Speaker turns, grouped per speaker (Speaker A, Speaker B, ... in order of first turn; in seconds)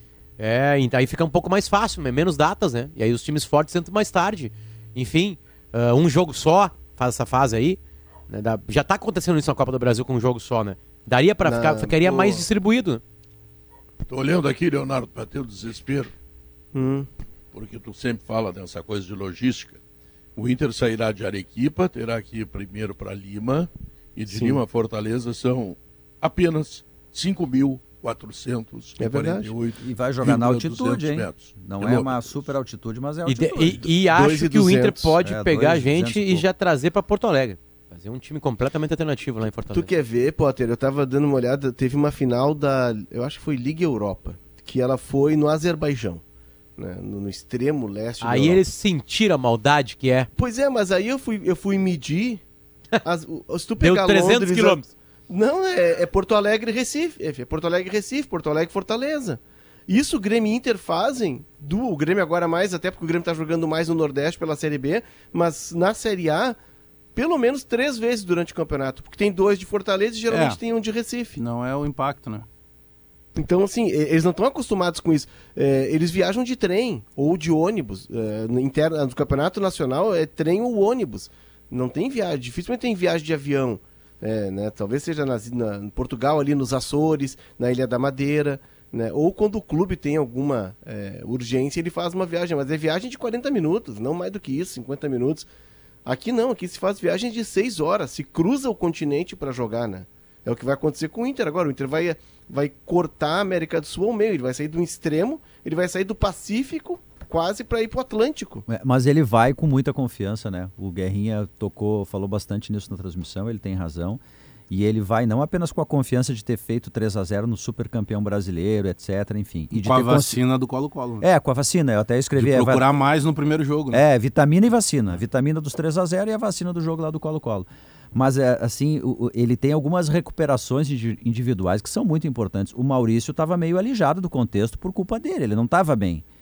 Speaker A: 0.4-13.0, 33.2-39.9, 48.2-50.3, 53.8-54.9
Speaker B: 11.4-12.4, 16.7-17.1, 24.3-24.6, 29.0-29.5, 34.1-35.1, 39.7-46.2, 46.8-48.6, 50.4-52.4, 53.0-66.6, 67.1-71.4, 73.3-95.5, 96.0-108.6
Speaker C: 14.1-16.1, 17.5-19.8, 20.4-32.4
Speaker D: 29.8-33.8, 35.2-36.4, 108.7-120.4, 121.2-122.8, 123.9-136.2
Speaker E: 70.3-70.6, 71.4-72.5, 119.7-121.2, 122.3-124.0